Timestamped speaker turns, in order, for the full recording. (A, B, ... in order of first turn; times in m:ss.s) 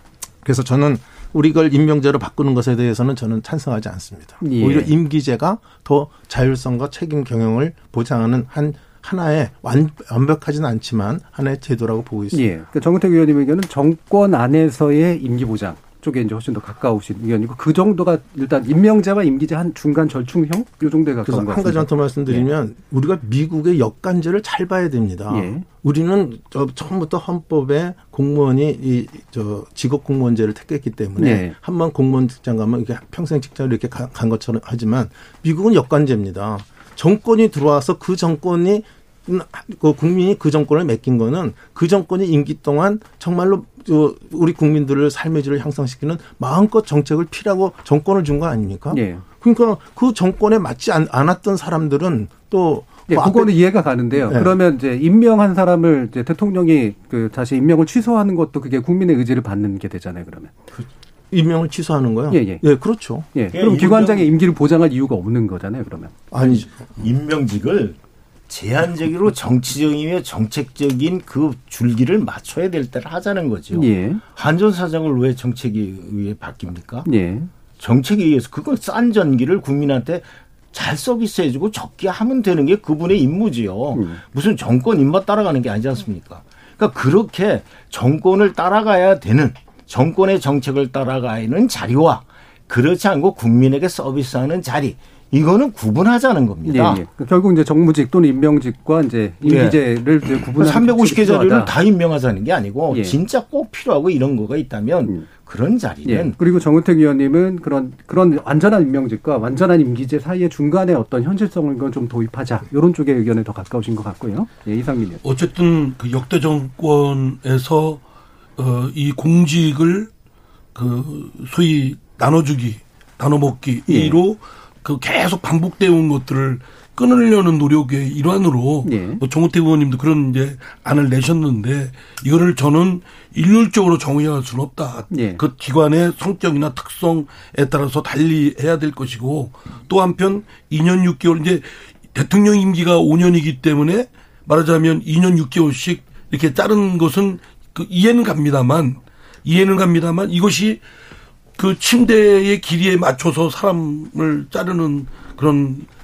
0:00.4-0:12.5 A
0:04.4-0:04.9 B
0:12.3-0:22.5 B
0:21.3-0:53.6 A
0:25.3-0:25.7 B
0:31.2-0:31.6 B
0:48.9-0:49.2 B
0:53.1-1:00.5 B
0:54.2-0:54.6 A
1:01.3-1:03.3 A
1:02.3-1:02.6 B
1:03.3-1:06.1 B
1:03.5-1:04.3 C
1:06.3-1:06.7 A
1:06.4-1:08.0 C
1:08.5-1:17.1 C
1:13.7-1:14.2 B
1:17.0-1:17.5 B
1:17.8-1:37.0 C
1:23.9-1:24.2 B
1:36.6-1:41.7 B
1:39.4-1:39.8 C
1:40.5-1:46.4 C
1:42.9-1:43.2 B
1:46.0-1:55.2 B
1:55.2-1:58.0 D
1:58.6-2:00.1 D
2:00.8-2:30.8 D
2:03.9-2:04.2 B
2:08.8-2:09.2 B
2:15.1-2:15.4 B
2:31.6-2:35.9 D